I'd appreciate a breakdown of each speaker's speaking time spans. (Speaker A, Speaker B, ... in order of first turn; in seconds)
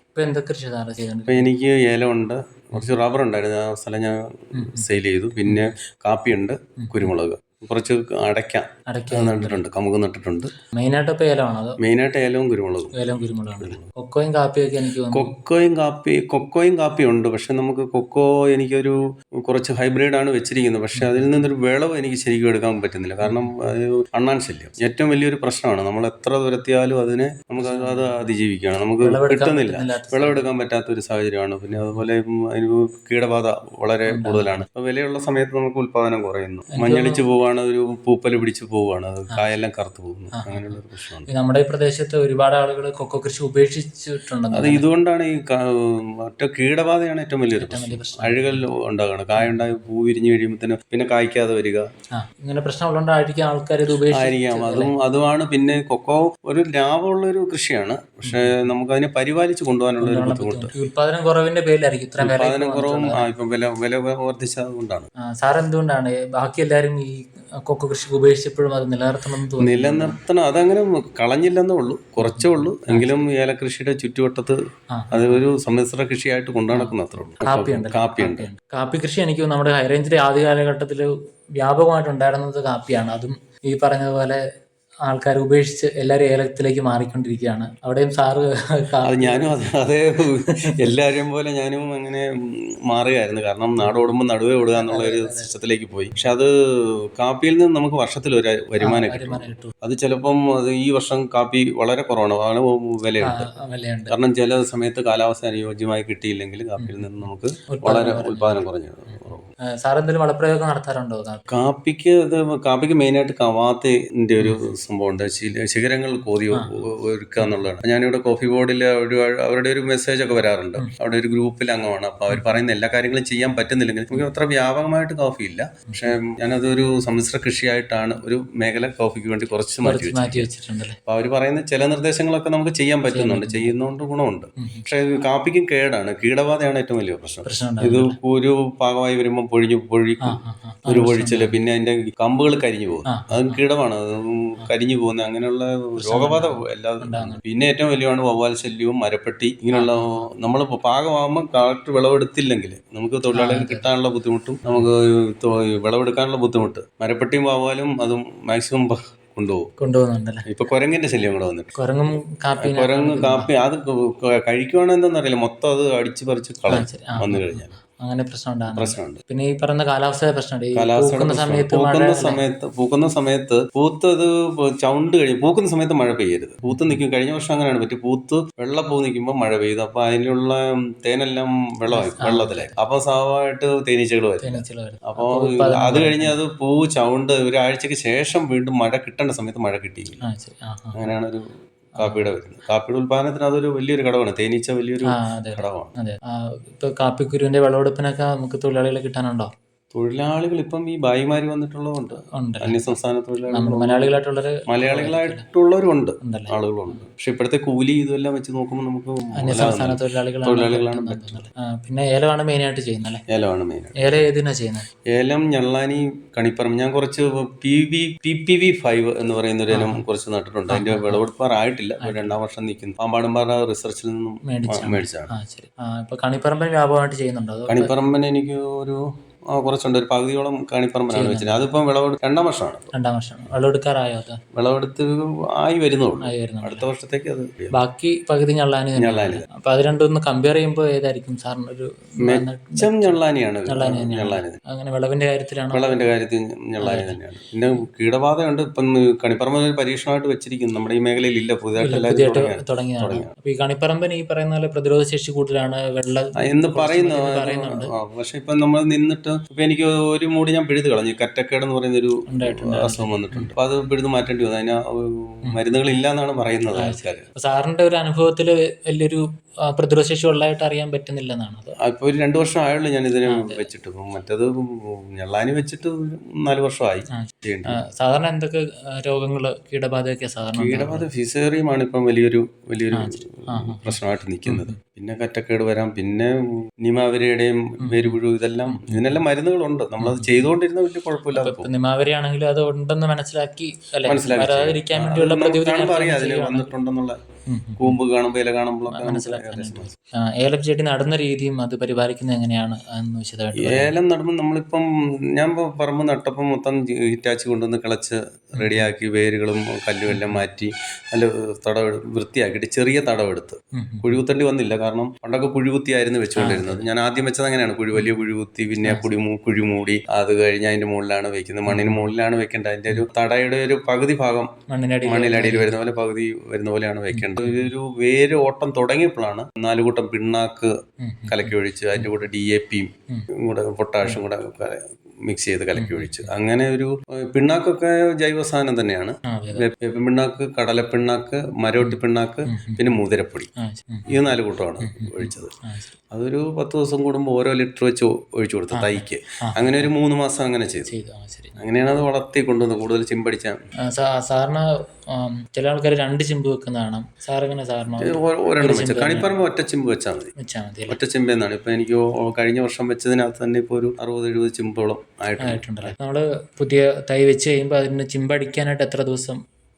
Speaker A: 0.1-1.5, 4.6-4.8, 6.8-7.1, 8.9-9.6, 10.8-11.8, 13.0-15.3, 23.2-23.5, 27.6-28.3, 29.0-30.4, 34.1-34.7, 36.8-37.2, 40.4-40.8, 41.3-44.8, 47.5-48.6, 52.1-54.9, 58.3-58.5, 60.0-63.3, 65.4-70.2, 72.2-73.1, 74.9-75.4, 77.5-84.4, 85.1-89.5, 90.7-91.0, 94.8-95.5, 98.8-99.7, 103.2-104.2, 107.7-108.6, 109.1-111.4, 129.8-131.0, 133.1-133.7, 137.5-138.2, 140.3-141.6, 143.1-143.6, 146.0-147.4, 149.7-150.3, 153.3-153.9, 159.8-160.5, 161.8-163.5, 166.7-172.4, 176.7-176.9, 181.9-182.8, 184.4-186.4, 190.2-191.0, 192.0-192.2, 195.1-199.5, 202.4-202.9, 203.5-205.4, 206.2-206.6, 209.4-213.2, 214.0-214.9, 219.7-220.0, 220.7-221.2, 222.0-222.3, 224.5-227.9, 231.1-231.6, 232.9-234.4, 236.2-236.9, 237.8-243.2, 243.7-246.0, 246.8-247.2, 251.8-257.9, 262.3-263.5, 266.8-271.8, 273.3-273.7, 277.2-281.1, 282.9-284.7, 287.9-289.2, 290.0-290.3, 291.4-296.7, 297.5-298.0, 298.9-303.9, 308.6-308.9, 310.1-310.4, 313.8-314.1, 316.4-316.8, 318.8-319.1, 321.7-322.0, 324.7-325.8, 327.1-327.7, 331.0-332.1, 335.8-336.3, 339.3-339.6, 342.5-342.9, 343.6-344.2, 344.9-345.9, 348.7-349.9, 350.9-351.6, 353.9-359.3, 360.4-361.0, 365.4-369.4
Speaker B: 1.3-10.5, 11.8-12.9, 13.6-13.9, 15.1-41.3, 44.5-51.9, 54.1-60.7, 62.2-65.1, 69.6-74.6, 75.1-78.5, 89.0-92.3, 92.9-96.5, 97.2-103.5, 104.1-109.5, 111.5-130.5, 131.1-159.7, 160.5-167.7, 168.7-169.2, 170.8-190.2, 190.9-195.9, 199.9-204.2, 204.7-211.4, 213.3-214.3, 215.1-225.3, 227.7-232.9, 234.5-237.7, 239.0-239.4, 242.2-244.6, 245.7-253.3, 256.4-267.3, 271.8-277.8, 280.6-291.7, 294.1-297.2, 297.8-299.9, 303.6-324.5, 325.1-330.7, 331.3-343.5, 344.1-345.5, 346.1-350.9, 351.6-353.6, 358.0-360.3, 360.9-365.9